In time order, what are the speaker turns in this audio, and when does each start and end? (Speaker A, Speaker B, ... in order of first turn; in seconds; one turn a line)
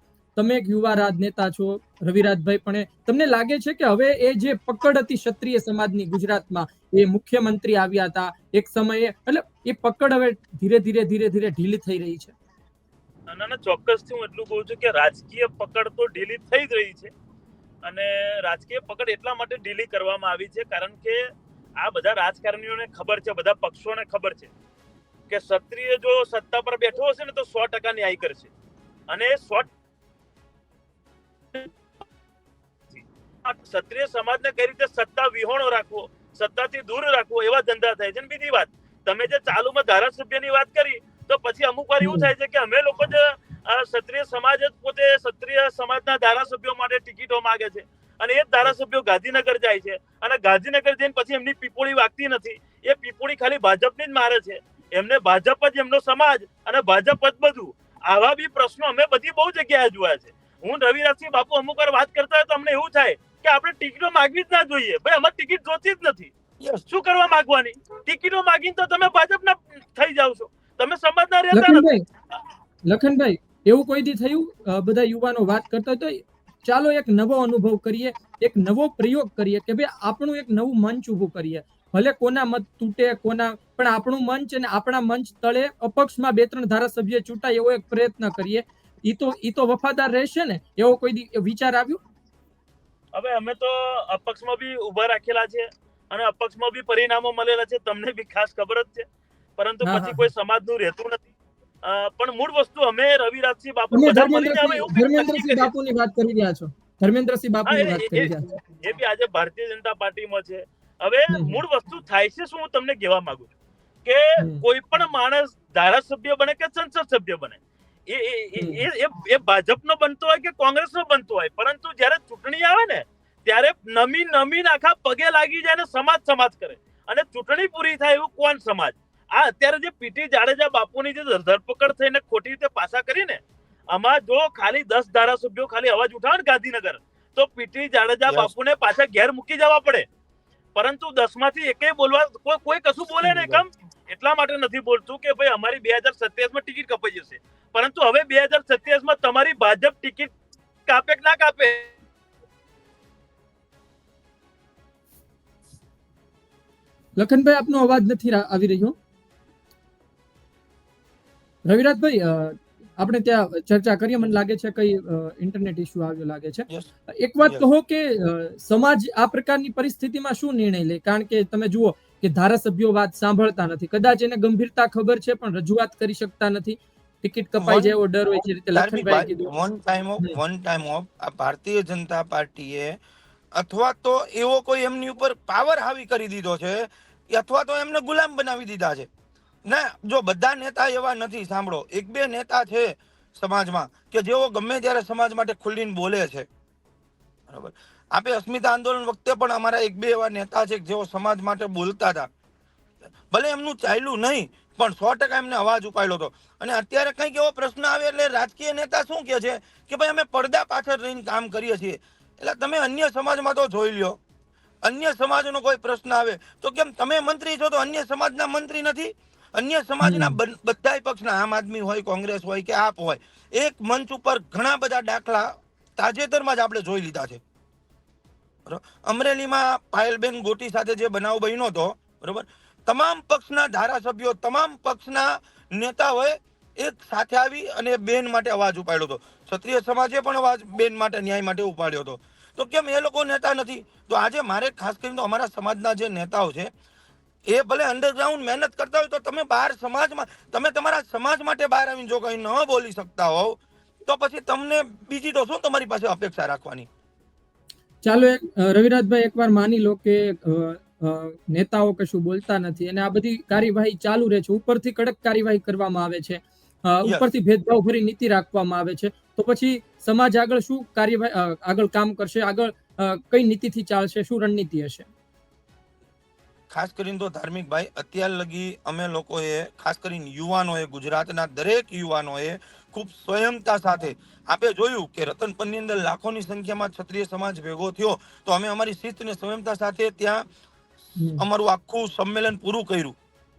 Speaker A: 0.4-12.3
Speaker B: 13.3-17.1
Speaker B: 17.8-21.2
Speaker B: 21.8-24.5
Speaker B: 25.3-28.5
Speaker B: 29.1-29.7
Speaker B: 32.9-66.3
Speaker A: 42.0-42.3
Speaker C: 66.6-66.9
Speaker B: 66.9-71.9
Speaker A: 71.5-72.0
Speaker A: 72.9-92.0
Speaker B: 93.1-99.0
Speaker B: 99.6-101.3
Speaker A: 99.8-100.3
Speaker B: 101.8-105.7
Speaker A: 103.9-108.6
Speaker B: 107.7-113.5
Speaker A: 111.3-111.6
Speaker B: 114.0-140.1
Speaker A: 118.6-118.8
Speaker B: 140.8-150.3
Speaker A: 143.2-143.6
Speaker B: 150.9-151.9
Speaker A: 157.2-159.0
Speaker A: 161.7-166.7
Speaker A: 167.2-179.5
Speaker C: 177.6-178.0
Speaker C: 178.7-183.0
Speaker C: 183.6-189.1
Speaker C: 189.7-196.5
Speaker C: 197.5-202.3
Speaker C: 203.3-214.2
Speaker C: 214.8-227.4
Speaker A: 220.0-220.4
Speaker C: 228.7-246.7
Speaker C: 247.5-256.9
Speaker A: 258.0-275.1
Speaker C: 267.0-267.3
Speaker C: 276.7-290.4
Speaker A: 291.2-291.4
Speaker C: 291.4-293.2